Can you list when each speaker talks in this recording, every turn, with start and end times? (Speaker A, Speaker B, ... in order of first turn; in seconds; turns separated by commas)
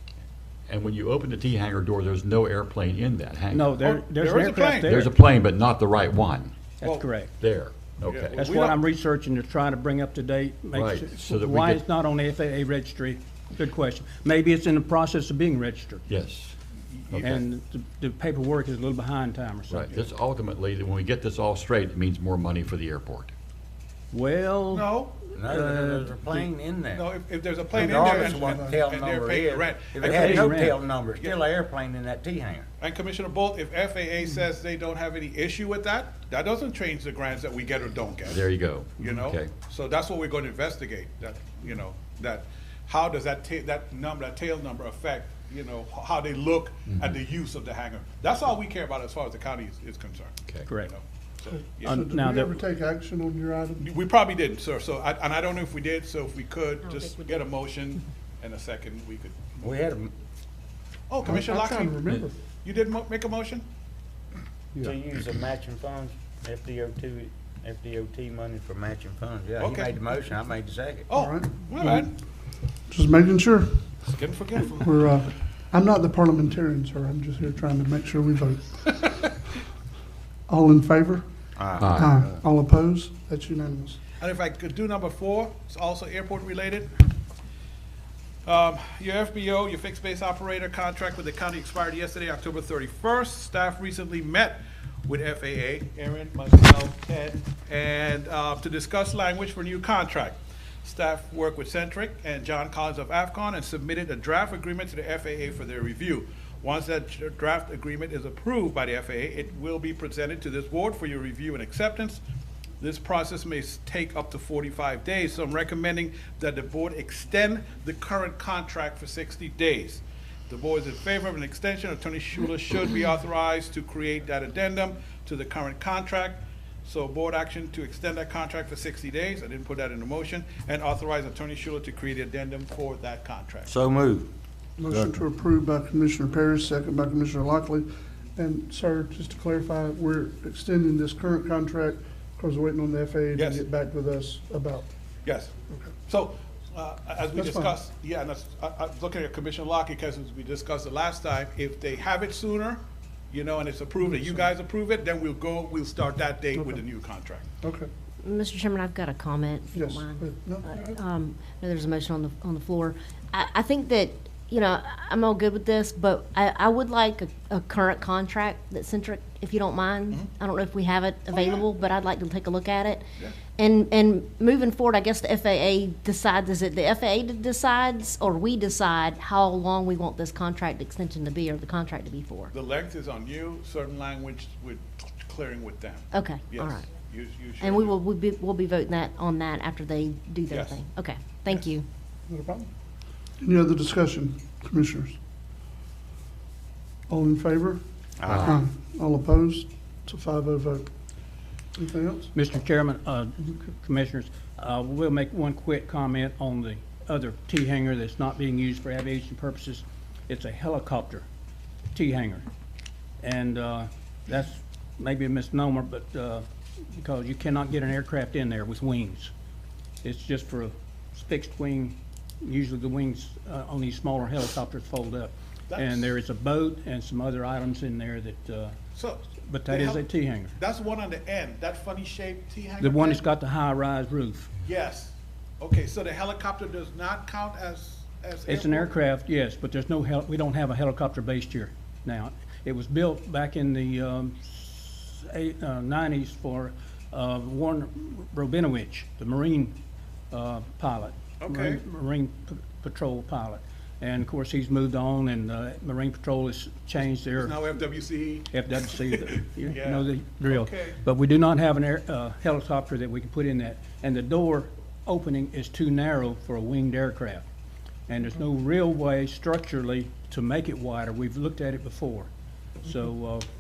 Speaker A: 0.7-3.8, Speaker B: 3.5-5.2, Speaker C: 3.8-5.0, Speaker A: 4.8-8.4, Speaker B: 6.8-7.3, Speaker C: 6.8-7.2, Speaker C: 8.0-8.8, Speaker B: 8.3-16.0, Speaker A: 10.7-11.9, Speaker A: 16.1-16.6, Speaker C: 16.9-17.4, Speaker A: 17.1-17.4, Speaker B: 17.2-19.7, Speaker A: 19.7-23.3, Speaker B: 24.1-24.8, Speaker C: 24.7-25.2, Speaker D: 25.3-27.1, Speaker B: 25.5-26.1, Speaker C: 26.9-31.4, Speaker D: 27.7-32.7, Speaker E: 27.8-28.7, Speaker B: 30.1-30.8, Speaker C: 32.8-38.4, Speaker A: 38.3-39.5, Speaker C: 39.0-52.1, Speaker E: 51.5-53.9, Speaker B: 51.8-52.6, Speaker C: 53.8-59.8, Speaker D: 59.6-60.1, Speaker C: 61.1-63.6, Speaker E: 61.2-62.4, Speaker D: 64.8-71.1, Speaker C: 69.6-70.0, Speaker C: 71.1-72.1, Speaker E: 71.1-72.1, Speaker E: 72.9-73.9, Speaker C: 74.1-75.0, Speaker E: 74.8-79.4, Speaker E: 80.5-81.2, Speaker D: 81.6-82.4, Speaker A: 81.8-82.0, Speaker E: 81.8-84.0, Speaker C: 84.2-87.0, Speaker C: 88.5-112.2, Speaker C: 112.8-133.8, Speaker D: 133.7-134.3, Speaker E: 134.8-144.9, Speaker C: 143.4-143.7, Speaker C: 145.2-145.5, Speaker C: 146.1-152.8, Speaker E: 147.3-147.7, Speaker C: 153.3-157.4, Speaker E: 154.0-154.5, Speaker E: 156.6-156.8, Speaker E: 157.6-157.9, Speaker F: 158.2-173.0, Speaker E: 159.7-161.0, Speaker C: 171.4-171.6, Speaker F: 173.6-182.5, Speaker C: 182.5-188.0, Speaker F: 186.1-186.9, Speaker F: 187.6-191.8, Speaker C: 190.5-190.8, Speaker E: 192.3-192.7, Speaker E: 193.4-195.2, Speaker E: 197.1-200.9, Speaker D: 198.2-198.7, Speaker E: 201.8-202.3, Speaker B: 202.3-211.3, Speaker B: 211.9-212.5, Speaker B: 213.2-219.3, Speaker B: 220.0-228.8, Speaker C: 225.7-226.1, Speaker C: 228.9-233.3, Speaker B: 229.5-230.5, Speaker B: 232.8-234.5, Speaker C: 234.6-238.9, Speaker B: 238.5-249.7, Speaker B: 250.3-257.5, Speaker C: 251.4-251.8, Speaker C: 256.9-261.0, Speaker B: 258.6-267.4, Speaker B: 268.1-272.3, Speaker B: 272.9-273.5